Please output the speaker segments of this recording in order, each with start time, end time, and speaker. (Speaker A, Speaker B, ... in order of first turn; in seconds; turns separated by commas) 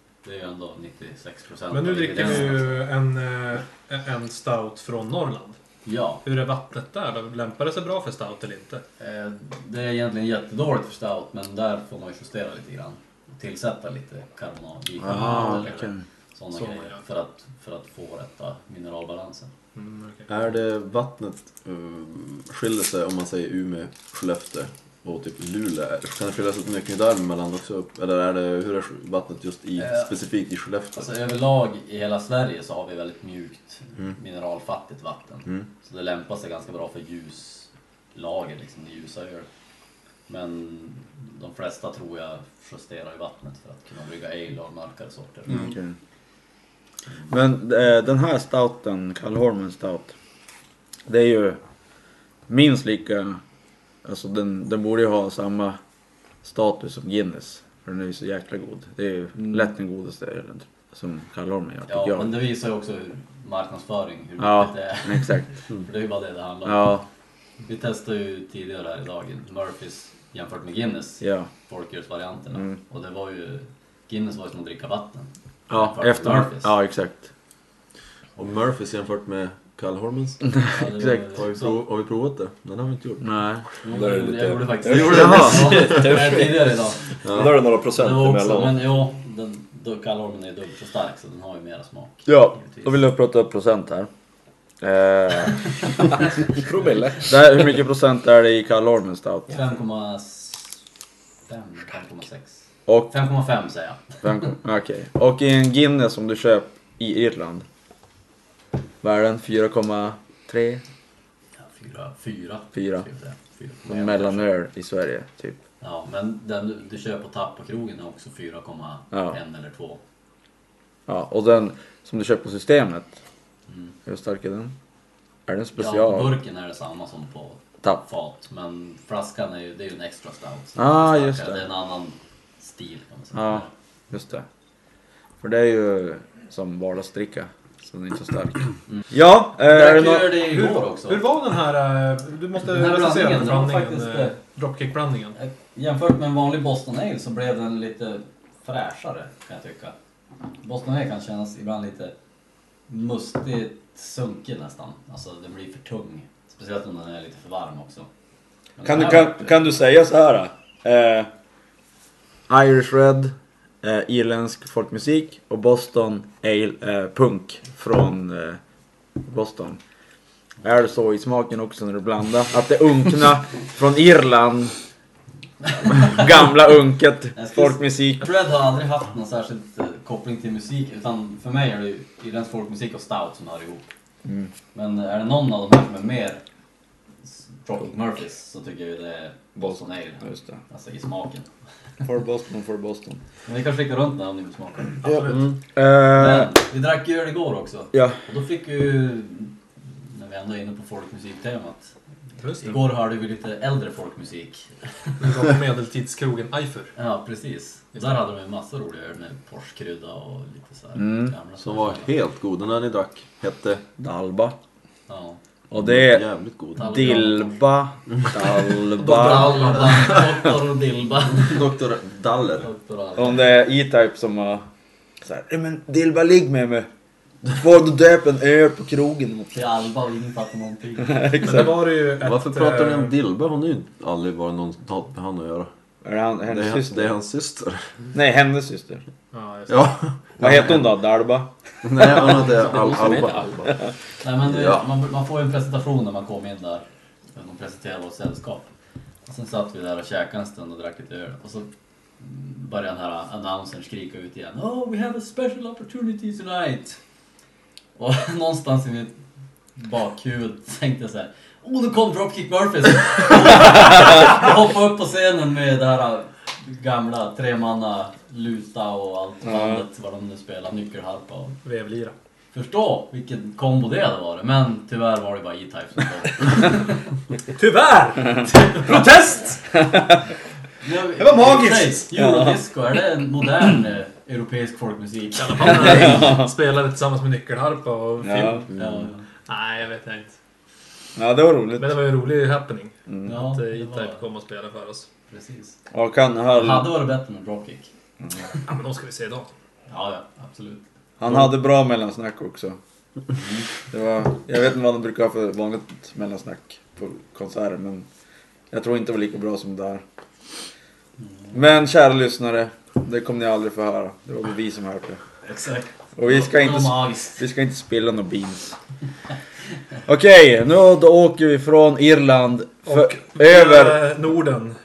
Speaker A: 0.2-2.8, Speaker B: 1.7-5.6, Speaker A: 5.8-6.2, Speaker B: 6.2-8.8, Speaker A: 9.0-19.5, Speaker C: 15.0-16.0, Speaker B: 15.1-15.9, Speaker B: 16.5-17.0, Speaker B: 19.8-20.3, Speaker D: 20.3-31.1, Speaker A: 29.8-30.1, Speaker A: 31.0-39.5, Speaker A: 40.3-45.8, Speaker C: 45.5-46.0, Speaker C: 47.3-50.1, Speaker C: 51.1-51.6, Speaker C: 52.5-53.4, Speaker C: 54.0-55.8, Speaker C: 56.4-62.4, Speaker A: 61.9-67.0, Speaker C: 64.4-65.5, Speaker C: 66.7-67.1, Speaker A: 67.6-76.7, Speaker C: 71.2-71.5, Speaker C: 72.5-72.8, Speaker C: 75.7-77.3, Speaker D: 78.4-80.5, Speaker C: 80.5-81.3, Speaker A: 80.7-81.8, Speaker D: 81.3-83.3, Speaker C: 83.2-83.7, Speaker A: 83.8-87.2, Speaker E: 83.9-88.9, Speaker D: 84.9-86.0, Speaker C: 85.0-86.0, Speaker D: 87.2-87.6, Speaker A: 87.9-92.9, Speaker C: 92.3-94.1, Speaker C: 94.8-95.9, Speaker E: 96.5-97.3, Speaker C: 97.2-99.6, Speaker A: 99.5-100.8, Speaker A: 101.5-104.5, Speaker C: 102.9-103.1, Speaker C: 104.2-107.7, Speaker C: 109.0-110.8, Speaker A: 111.6-114.5, Speaker C: 112.7-113.0, Speaker C: 113.9-115.6, Speaker A: 115.8-120.0, Speaker C: 121.1-123.2, Speaker A: 123.7-124.0, Speaker C: 124.1-124.8, Speaker C: 125.5-126.4, Speaker A: 125.8-133.7, Speaker C: 130.8-131.6, Speaker C: 133.3-134.4, Speaker C: 135.4-140.4, Speaker A: 139.6-141.3, Speaker B: 140.5-145.4, Speaker A: 142.6-144.4, Speaker A: 145.4-149.9, Speaker A: 150.6-152.2, Speaker A: 152.9-158.1, Speaker A: 158.8-159.6, Speaker C: 158.8-161.3, Speaker C: 162.5-168.6, Speaker C: 169.2-169.8, Speaker C: 170.6-174.7, Speaker A: 175.7-176.3, Speaker C: 175.9-178.3, Speaker A: 177.3-183.9, Speaker C: 184.2-184.5, Speaker A: 184.7-186.4, Speaker A: 187.3-191.5, Speaker C: 189.6-190.6, Speaker C: 192.0-193.2, Speaker A: 193.5-195.0, Speaker B: 195.0-195.4, Speaker D: 195.2-195.6, Speaker C: 195.7-196.5, Speaker A: 196.1-201.9, Speaker C: 197.9-198.2, Speaker B: 202.4-202.9, Speaker A: 202.6-205.1, Speaker B: 205.2-206.9, Speaker A: 207.0-212.1, Speaker C: 211.0-211.3, Speaker D: 211.6-213.9, Speaker C: 214.0-214.6, Speaker A: 215.1-215.4, Speaker C: 215.7-220.0, Speaker D: 215.8-217.0, Speaker A: 216.8-217.6, Speaker A: 219.0-221.6, Speaker D: 221.3-222.7, Speaker A: 222.6-223.5, Speaker C: 223.2-224.7, Speaker C: 225.2-226.9, Speaker C: 227.5-229.6, Speaker A: 229.5-231.4, Speaker C: 231.0-231.9, Speaker B: 231.4-233.2, Speaker D: 232.2-235.7, Speaker C: 236.0-237.1, Speaker D: 236.5-237.9, Speaker C: 238.1-239.0, Speaker B: 239.3-239.9, Speaker D: 239.7-240.9, Speaker C: 240.4-243.7, Speaker D: 241.8-243.8, Speaker A: 244.2-248.7, Speaker D: 244.4-244.9, Speaker A: 249.3-251.7, Speaker A: 252.2-257.0, Speaker A: 258.0-259.2, Speaker A: 259.8-271.6, Speaker C: 269.4-269.8, Speaker B: 271.6-272.1, Speaker A: 272.5-277.0, Speaker B: 277.6-279.8, Speaker A: 278.5-279.0, Speaker A: 280.8-286.3, Speaker B: 281.2-282.0, Speaker C: 282.1-282.6, Speaker B: 285.4-288.7, Speaker C: 285.7-286.5, Speaker C: 288.2-288.7, Speaker A: 288.8-289.3, Speaker B: 289.5-290.3, Speaker C: 291.2-292.0, Speaker B: 291.8-295.1, Speaker A: 293.2-294.2, Speaker A: 295.3-295.8, Speaker C: 295.9-297.0, Speaker A: 296.5-297.9, Speaker B: 298.6-299.5, Speaker A: 299.9-300.9, Speaker C: 301.2-302.8, Speaker A: 303.4-303.7, Speaker C: 303.9-308.1, Speaker C: 308.7-310.0, Speaker C: 311.5-315.2, Speaker A: 315.4-317.4, Speaker C: 316.2-318.8, Speaker C: 320.1-324.2, Speaker B: 322.9-324.8